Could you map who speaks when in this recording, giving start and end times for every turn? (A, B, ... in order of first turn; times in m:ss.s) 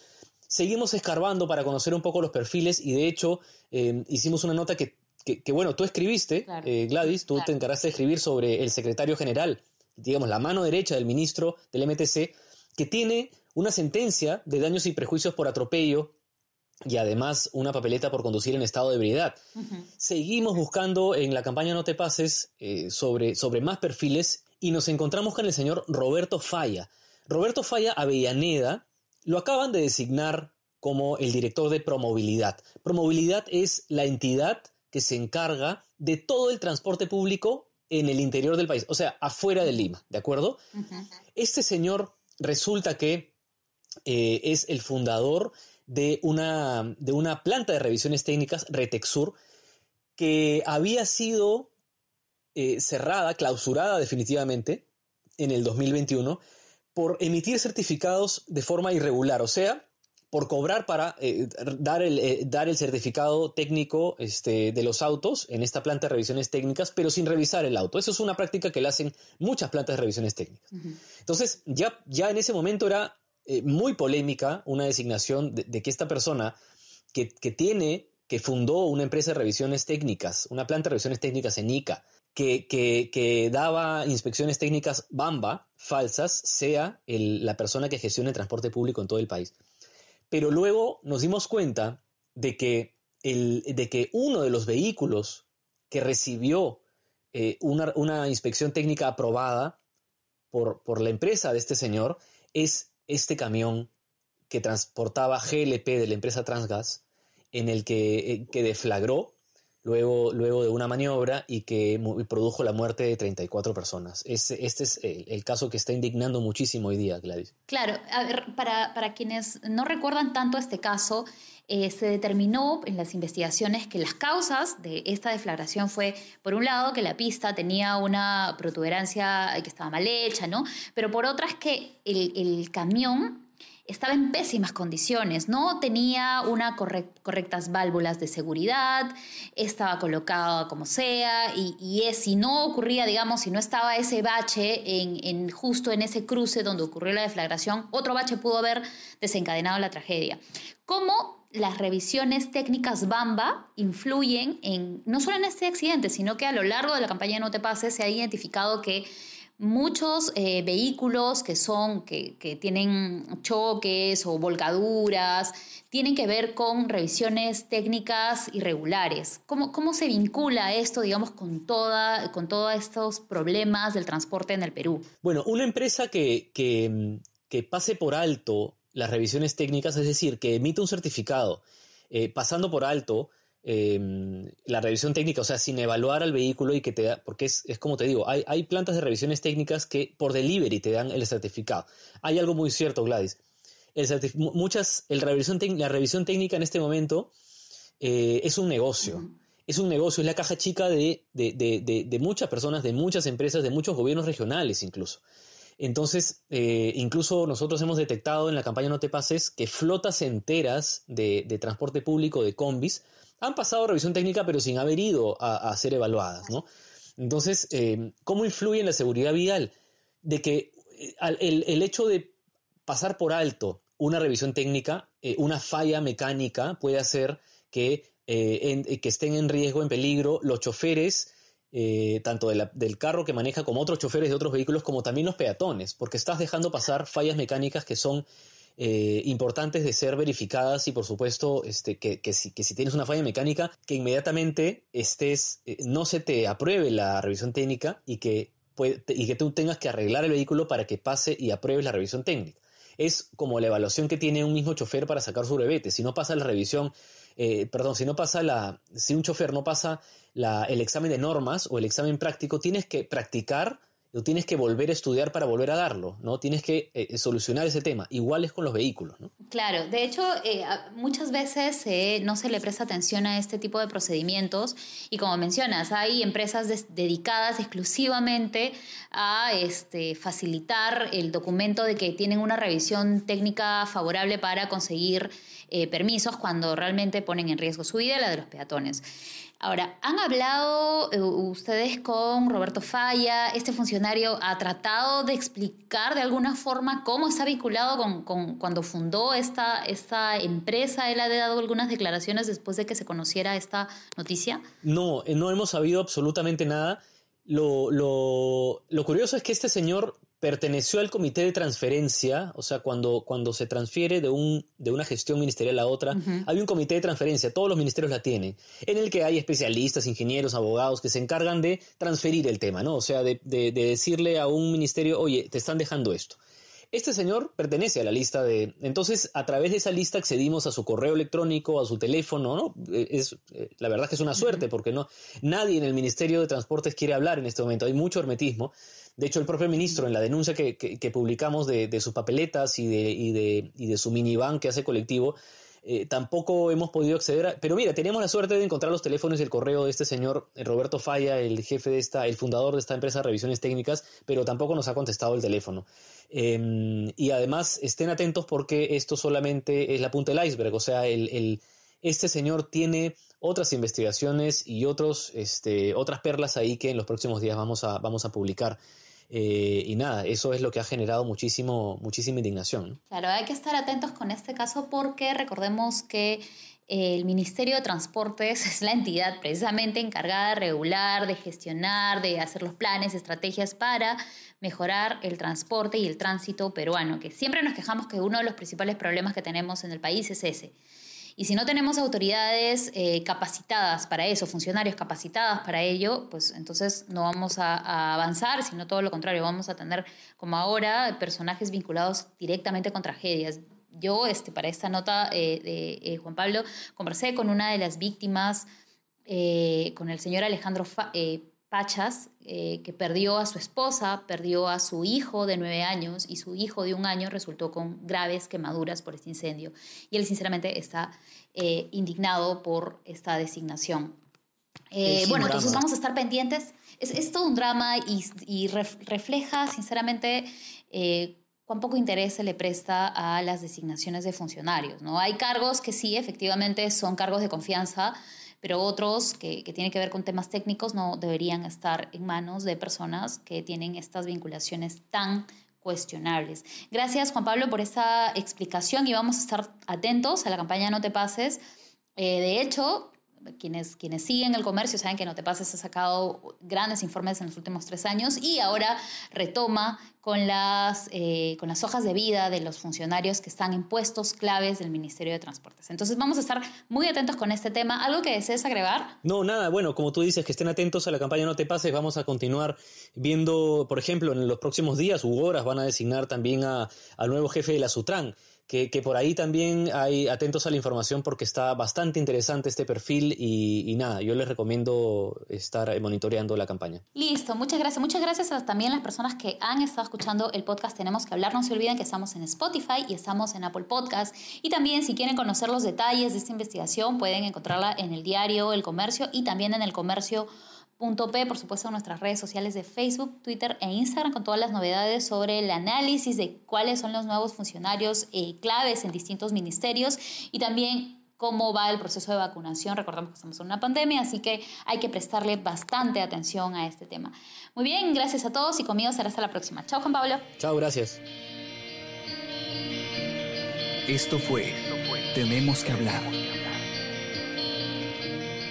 0:00.5-0:16.1 A
0:06.5-0:07.5 B
0:16.9-0:19.4 A
0:19.6-0:19.9 B
0:20.0-0:40.6 A
0:41.4-0:43.3 A
0:44.1-0:49.4 A
0:50.2-0:51.7 A
0:52.6-0:54.9 A
0:55.4-0:56.4 A
0:57.0-1:10.7 A
1:11.2-1:16.6 A
1:17.1-1:29.5 A
1:30.3-1:36.8 A
1:37.3-1:39.8 A
1:40.5-1:43.9 A
1:44.5-1:47.0 A
1:47.5-1:57.5 A
1:57.7-2:39.1 B
2:39.6-2:55.1 B
2:55.2-3:13.4 A
3:14.0-3:17.3 A
3:18.0-3:25.2 A
3:19.0-3:19.3 B
3:25.8-3:36.7 A
3:37.2-3:39.7 A
3:40.2-3:42.4 A
3:42.9-3:58.3 A
3:58.8-4:29.3 A
4:29.5-4:49.0 B
4:49.6-5:04.6 B
5:04.8-5:26.4 A
5:16.1-5:16.5 B
5:26.9-6:13.0 A
6:13.1-6:30.8 B
6:31.4-6:48.7 B
6:49.3-7:04.2 B
7:04.9-7:31.6 B
7:05.0-7:05.8 A
7:32.2-7:49.2 B
7:49.2-8:07.0 A
8:07.1-8:40.5 B
8:40.6-8:41.2 A
8:44.1-8:46.4 C